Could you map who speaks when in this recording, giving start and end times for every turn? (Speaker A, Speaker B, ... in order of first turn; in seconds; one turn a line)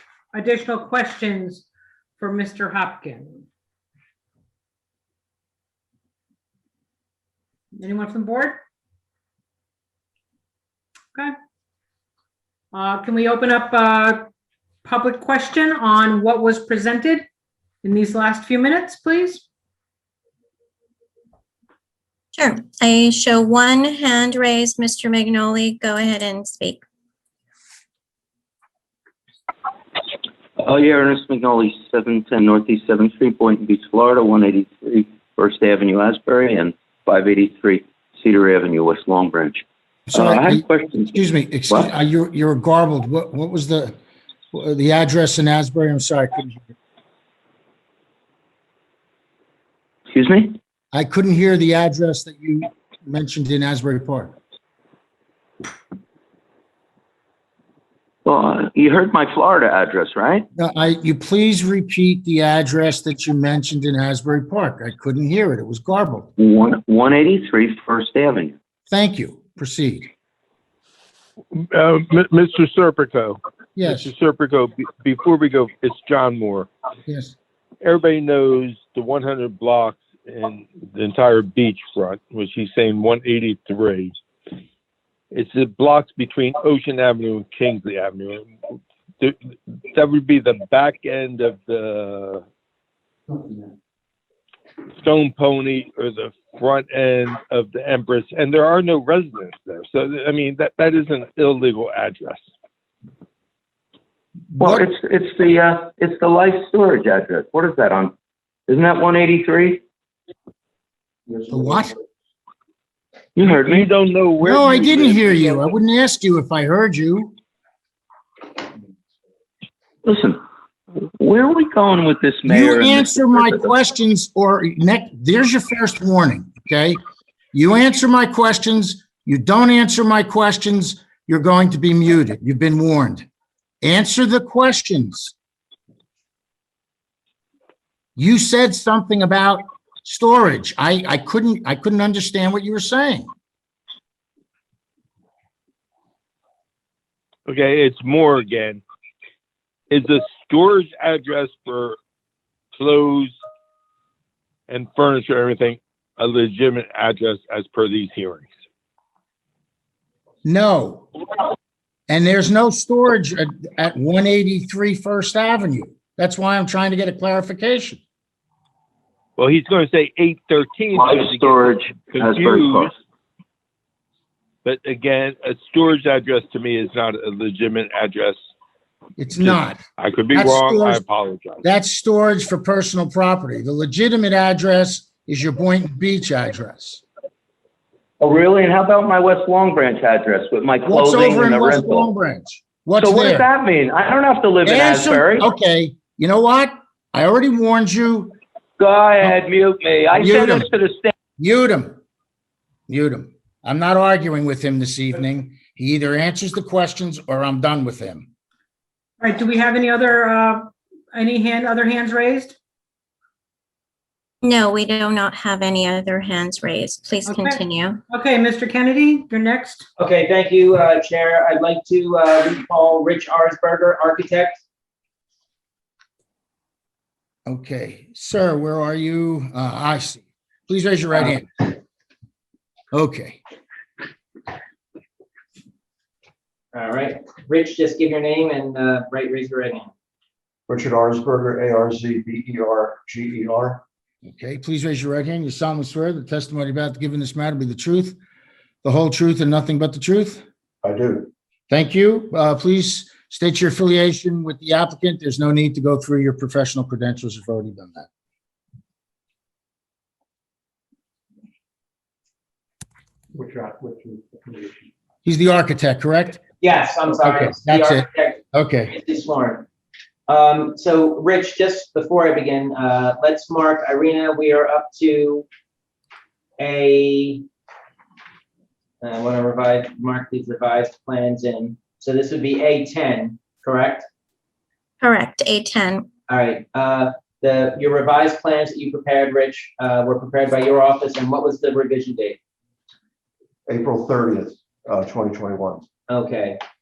Speaker A: 0.3-1.6
Speaker A: 2.2-3.4
Speaker A: 7.7-8.6
Speaker A: 12.7-14.3
Speaker A: 14.8-17.2
Speaker A: 17.8-19.4
Speaker B: 22.4-26.8
Speaker C: 30.6-41.2
Speaker D: 40.1-44.0
Speaker D: 44.5-46.6
Speaker C: 50.1-50.6
Speaker D: 50.9-54.3
Speaker C: 58.2-60.5
Speaker D: 60.5-66.3
Speaker C: 66.4-68.5
Speaker D: 68.9-70.1
Speaker E: 71.5-76.7
Speaker D: 73.8-74.1
Speaker D: 77.1-77.3
Speaker E: 77.8-84.1
Speaker E: 85.3-88.5
Speaker E: 89.9-92.4
Speaker E: 95.0-102.4
Speaker D: 104.5-104.9
Speaker C: 104.6-108.1
Speaker C: 108.7-109.8
Speaker D: 111.5-111.9
Speaker C: 113.3-113.9
Speaker E: 113.6-115.7
Speaker D: 114.4-117.3
Speaker C: 120.0-120.4
Speaker C: 121.0-123.6
Speaker D: 122.5-127.0
Speaker D: 127.5-133.2
Speaker D: 133.8-135.3
Speaker D: 138.2-143.3
Speaker E: 147.5-148.8
Speaker E: 149.9-152.0
Speaker E: 152.7-153.3
Speaker E: 154.7-158.5
Speaker D: 160.4-161.1
Speaker D: 162.1-168.0
Speaker E: 169.4-172.9
Speaker C: 170.9-172.9
Speaker E: 174.6-178.4
Speaker D: 179.2-179.8
Speaker E: 179.4-181.6
Speaker D: 180.3-181.0
Speaker D: 181.6-187.0
Speaker C: 188.2-192.1
Speaker D: 190.8-193.5
Speaker C: 193.0-195.5
Speaker D: 194.6-198.3
Speaker C: 198.8-201.1
Speaker D: 200.2-200.7
Speaker D: 201.4-202.0
Speaker D: 202.9-208.3
Speaker A: 209.2-212.6
Speaker B: 214.5-217.9
Speaker A: 217.2-219.9
Speaker F: 220.0-224.6
Speaker D: 227.4-231.6
Speaker D: 232.9-233.4
Speaker F: 236.7-239.9
Speaker G: 240.7-243.8
Speaker D: 244.2-248.2
Speaker D: 248.8-250.4
Speaker G: 250.8-251.3
Speaker D: 251.7-258.1
Speaker G: 263.4-264.7
Speaker D: 265.2-266.4
Speaker F: 266.6-269.6
Speaker D: 267.1-268.9
Speaker F: 270.3-275.4
Speaker F: 276.6-277.4
Speaker F: 279.0-284.1
Speaker B: 285.0-286.0
Speaker F: 286.3-292.4
Speaker G: 293.7-295.9
Speaker F: 296.1-296.6